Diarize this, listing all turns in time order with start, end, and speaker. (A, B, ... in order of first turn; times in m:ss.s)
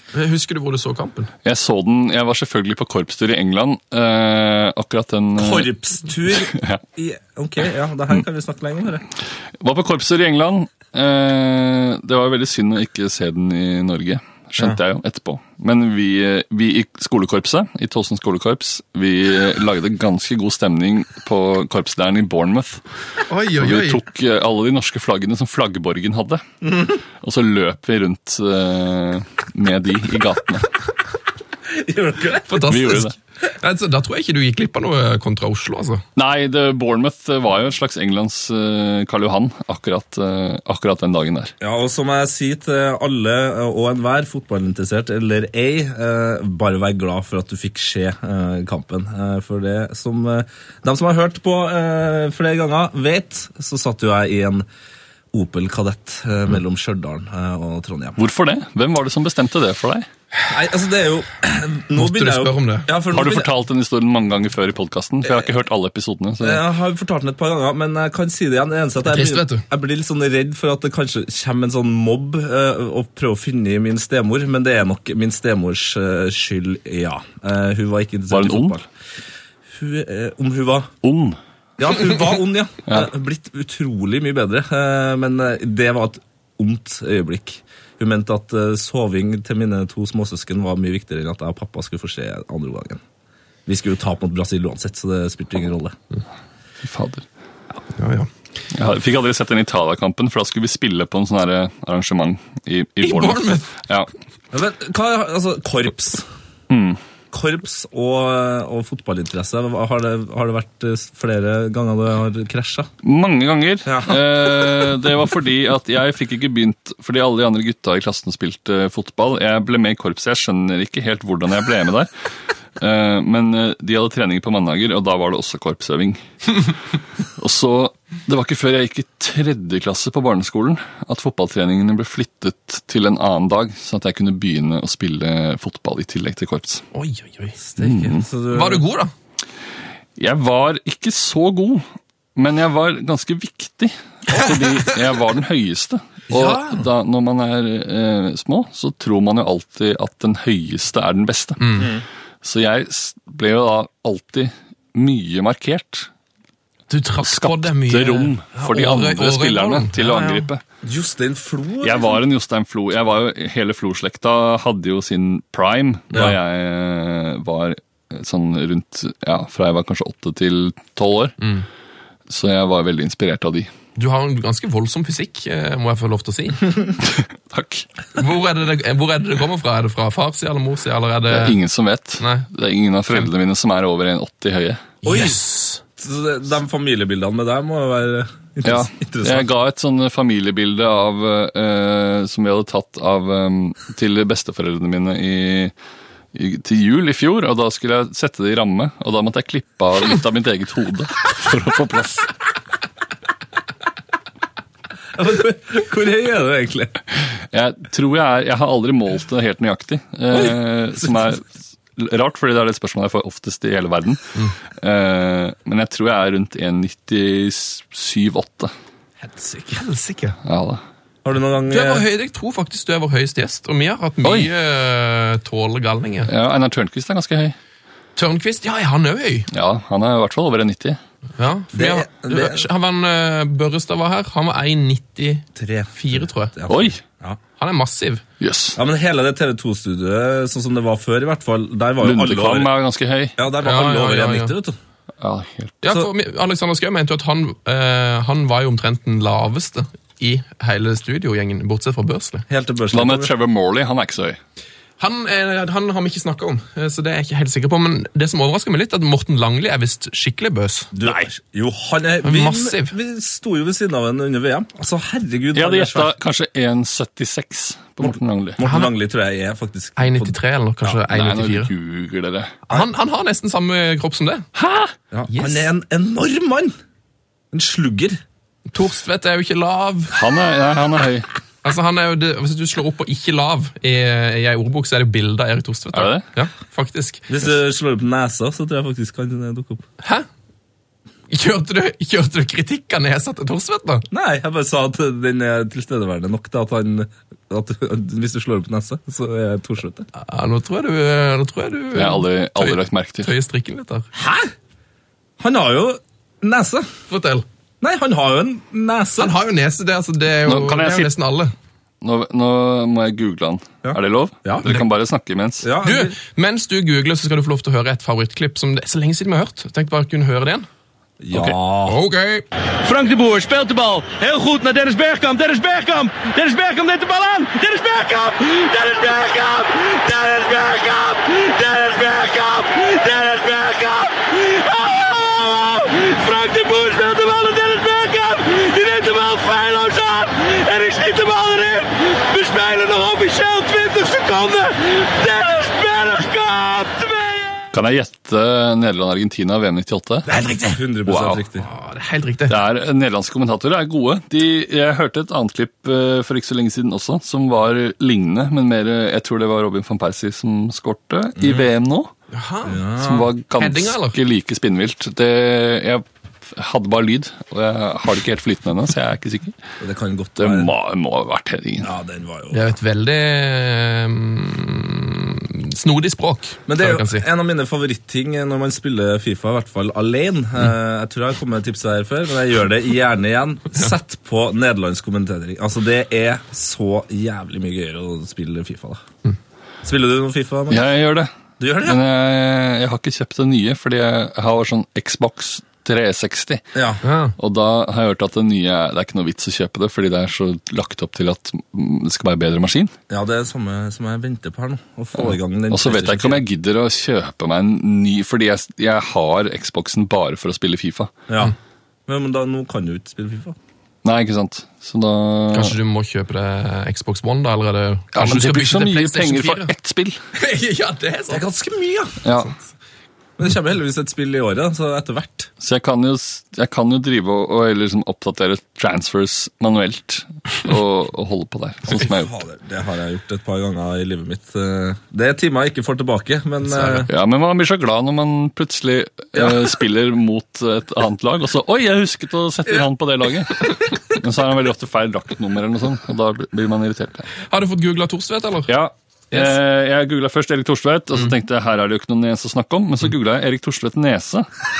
0:00.1-0:01.3 A
0:01.4-0:05.7 B
0:05.4-0:09.0 C
0:06.3-0:06.8 B
0:09.6-0:22.8 B
0:23.3-0:24.0 A
0:23.6-0:26.4 B
0:27.2-0:30.7 B
0:31.7-0:32.8 C
0:32.5-0:36.0 A
0:32.6-0:33.1 B
0:36.2-0:41.5 B
0:41.6-0:54.6 C
0:55.3-0:58.2 C
0:58.2-1:00.1 B
1:00.5-1:03.5 C
1:02.0-1:02.9 A
1:03.1-1:06.6 B
1:06.4-1:18.9 C
1:09.0-1:09.6 A
1:18.3-1:18.8 B
1:19.7-1:20.9 C
1:21.0-1:21.4 B
1:21.8-1:33.0 C
1:33.6-1:36.0 C
1:36.8-1:37.3 B
1:37.9-1:38.3 A
1:38.7-1:44.1 B
1:43.0-1:43.7 A
1:44.5-1:46.3 C
1:46.7-1:47.0 B
1:47.3-1:52.9 C
1:53.0-2:02.1 B
1:53.9-1:54.3 C
2:02.8-2:06.2 B
2:07.4-2:16.8 B
2:16.9-2:17.6 A
2:17.6-2:18.8 C
2:17.8-2:18.3 B
2:18.5-2:19.1 A
2:20.2-2:31.9 B
2:26.3-2:26.8 C
2:31.6-2:31.9 A
2:31.8-2:32.0 C
2:32.4-2:36.1 B
2:36.9-2:40.5 A
2:37.2-2:40.6 B
2:40.8-2:42.2 C
2:41.8-2:51.4 B
2:51.4-2:51.6 A
2:52.3-2:53.7 B
2:54.0-2:56.7 A
2:57.0-2:57.9 B
2:58.2-3:01.6 A
3:01.3-3:04.9 B
3:02.2-3:02.5 A
3:05.0-3:05.8 A
3:05.0-3:05.4 C
3:06.0-3:09.5 C
3:08.6-3:15.7 B
3:16.3-3:22.3 B
3:25.1-3:27.0 C
3:27.4-3:38.7 B
3:39.2-3:40.4 A
3:40.4-3:40.8 B
3:41.2-3:42.0 C
3:41.7-3:46.3 A
3:44.2-3:44.5 B
3:46.2-3:47.6 B
3:48.2-3:49.5 A
3:49.5-3:51.0 B
3:51.4-3:56.5 A
3:51.7-3:52.6 C
3:55.6-3:57.4 C
3:56.7-3:57.0 B
3:57.6-3:58.2 A
3:58.4-3:58.8 B
3:58.8-4:02.7 C
4:02.0-4:03.4 B
4:03.4-4:04.8 C
4:03.6-4:04.5 A
4:05.2-4:05.8 B
4:05.8-4:12.4 A
4:12.5-4:13.3 C
4:12.9-4:14.4 B
4:15.0-4:20.9 A
4:20.9-4:26.1 C
4:21.0-4:21.3 B
4:22.2-4:22.9 A
4:25.5-4:28.6 B
4:28.0-4:30.3 C
4:28.6-4:28.9 A
4:30.0-4:31.7 A
4:30.9-4:32.6 B
4:32.7-4:34.5 A
4:34.6-4:34.9 B
4:35.1-4:36.8 C
4:35.3-4:35.6 A
4:37.5-4:38.2 C
4:38.7-4:40.1 A
4:40.1-4:41.3 B
4:41.6-4:47.3 A
4:45.9-4:46.2 B
4:47.3-4:49.8 C
4:50.0-4:50.3 A
4:51.3-4:54.0 A
4:54.1-5:00.1 C
5:00.1-5:04.1 A
5:01.9-5:03.3 B
5:04.1-5:04.5 C
5:05.4-5:06.9 C
5:07.1-5:07.4 A
5:07.8-5:09.4 C
5:09.2-5:11.5 A
5:10.4-5:11.1 B
5:12.0-5:15.7 B
5:13.8-5:14.8 C
5:15.6-5:16.1 C
5:15.8-5:20.7 A
5:21.2-5:22.0 C
5:21.3-5:22.4 A
5:22.8-5:47.5 D
5:47.7-5:50.3 B
5:50.3-5:50.8 A
5:50.7-5:51.6 C
5:51.1-5:51.4 B
5:51.6-5:52.6 A
5:52.5-6:02.1 B
6:01.4-6:01.6 C
6:02.3-6:02.8 A
6:02.6-6:03.3 C
6:03.0-6:09.6 B
6:03.6-6:04.2 A
6:09.8-6:10.7 C
6:10.4-6:11.9 B
6:11.8-6:12.6 C
6:12.5-6:17.2 A
6:16.7-6:29.0 C
6:29.8-6:30.9 C
6:30.7-6:36.6 B
6:31.6-6:32.0 C
6:36.8-6:37.0 C
6:37.0-6:37.3 A
6:37.4-6:42.9 B
6:43.1-6:46.4 C
6:45.2-6:51.1 B
6:51.3-6:51.6 C
6:52.1-6:53.6 C
6:54.0-6:55.8 B
6:55.5-6:59.7 A
6:58.1-7:00.2 B
7:00.4-7:01.4 A
7:01.3-7:02.4 C
7:02.2-7:02.5 B
7:03.4-7:05.5 C
7:05.6-7:12.4 B
7:11.9-7:17.1 C
7:16.6-7:17.1 A
7:17.1-7:27.3 B
7:19.4-7:19.7 C
7:27.4-7:28.7 A
7:28.7-7:34.5 B
7:29.3-7:29.6 A